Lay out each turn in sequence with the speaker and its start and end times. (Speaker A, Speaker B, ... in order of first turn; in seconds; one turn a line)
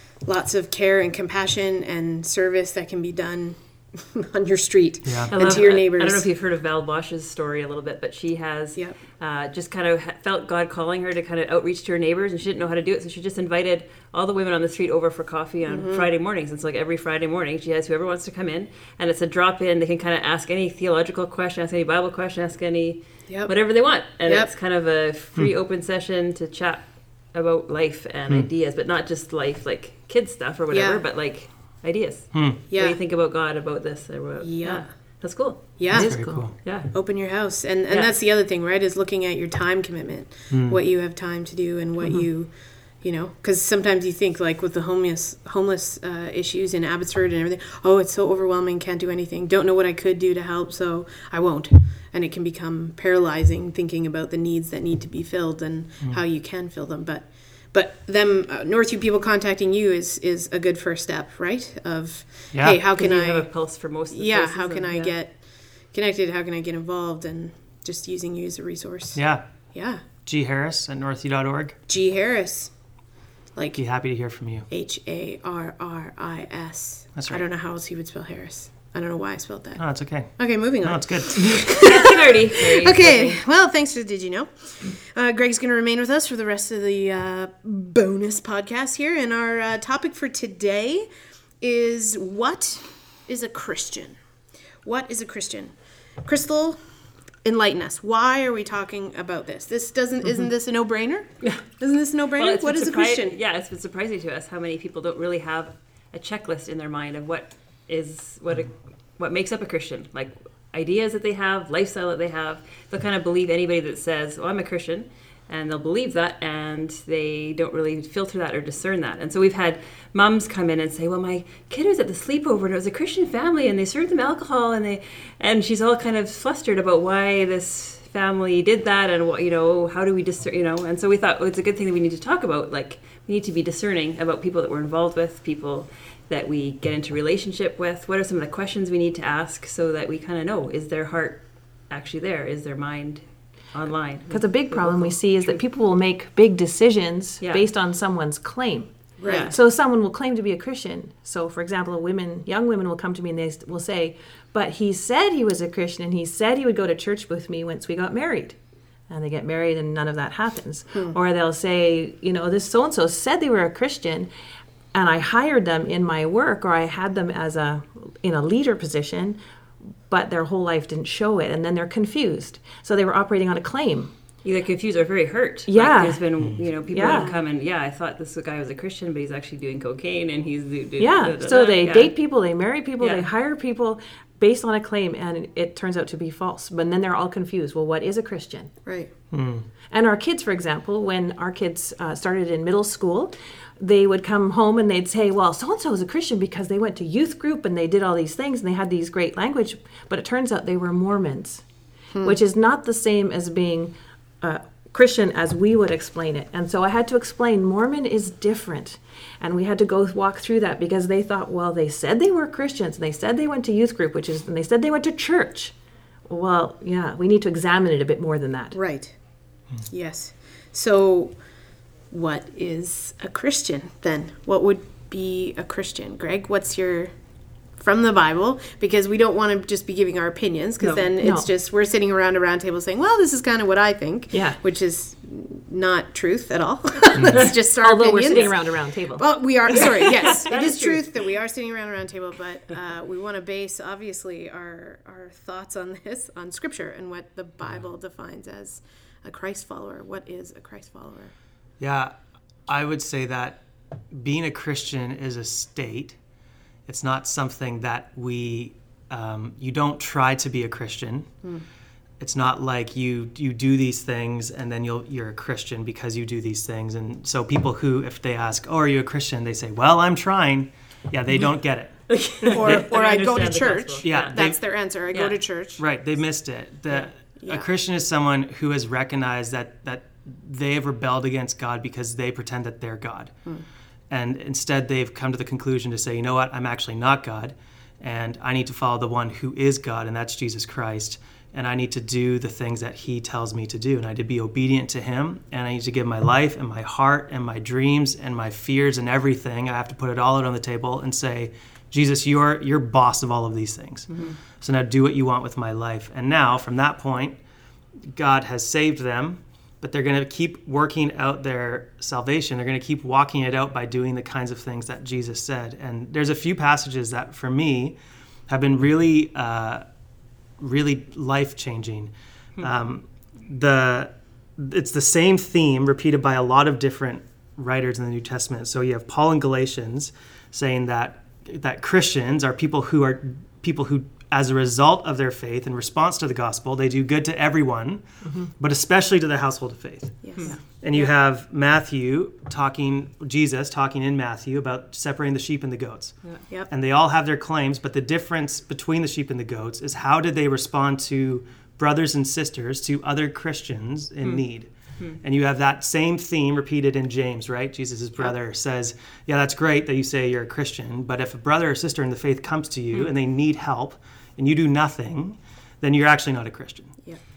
Speaker A: 0.2-6.3
Speaker B: 5.0-5.4
Speaker C: 5.3-35.7
Speaker A: 15.7-16.1
Speaker A: 23.3-23.5
Speaker A: 30.7-31.0
Speaker B: 32.3-32.6
Speaker A: 32.7-33.0
Speaker A: 34.4-34.9
Speaker A: 35.8-36.1
Speaker D: 35.9-36.4
Speaker B: 35.9-36.5
Speaker C: 36.6-36.9
Speaker A: 36.9-63.5
Speaker C: 37.9-38.1
Speaker B: 40.5-40.8
Speaker B: 62.5-62.8
Speaker C: 62.9-65.2
Speaker A: 64.1-65.3
Speaker A: 65.9-69.2
Speaker B: 69.1-69.4
Speaker A: 69.7-70.0
Speaker B: 70.2-71.8
Speaker A: 71.9-72.7
Speaker A: 73.5-73.8
Speaker B: 73.7-74.7
Speaker A: 74.7-79.8
Speaker B: 77.2-77.4
Speaker B: 79.8-81.6
Speaker A: 80.4-91.1
Speaker C: 81.5-83.4
Speaker A: 91.6-94.2
Speaker A: 94.8-96.8
Speaker A: 97.4-103.4
Speaker C: 102.3-145.5
Speaker D: 144.3-158.6
Speaker A: 149.2-149.5
Speaker C: 149.2-149.6
Speaker D: 159.1-164.3
Speaker D: 164.9-169.4
Speaker D: 170.1-174.1
Speaker C: 174.4-182.1
Speaker D: 175.7-176.2
Speaker B: 176.4-176.7
Speaker D: 176.9-177.3
Speaker D: 181.0-188.7
Speaker C: 183.0-183.3
Speaker B: 189.3-189.7
Speaker D: 189.9-201.6
Speaker A: 202.1-202.4
Speaker D: 202.2-215.7
Speaker D: 216.3-218.8
Speaker A: 218.7-219.1
Speaker A: 219.9-221.3
Speaker A: 222.1-227.1
Speaker A: 227.8-251.3
Speaker C: 230.8-231.1
Speaker D: 231.2-231.5
Speaker D: 234.3-234.6
Speaker D: 237.8-239.3
Speaker C: 239.7-241.1
Speaker B: 251.8-252.1
Speaker B: 252.7-253.6
Speaker B: 254.1-256.2
Speaker B: 256.9-261.3
Speaker B: 262.2-272.0
Speaker C: 272.1-274.5
Speaker A: 272.5-275.8
Speaker B: 272.6-272.9
Speaker B: 274.0-274.6
Speaker C: 275.1-275.4
Speaker B: 275.8-283.3
Speaker A: 277.4-277.7
Speaker B: 284.1-307.4
Speaker C: 304.1-304.4
Speaker B: 308.1-318.0
Speaker B: 318.5-319.8
Speaker B: 320.6-338.0
Speaker B: 338.6-346.1
Speaker A: 340.2-340.5
Speaker B: 346.7-354.7
Speaker B: 355.2-366.9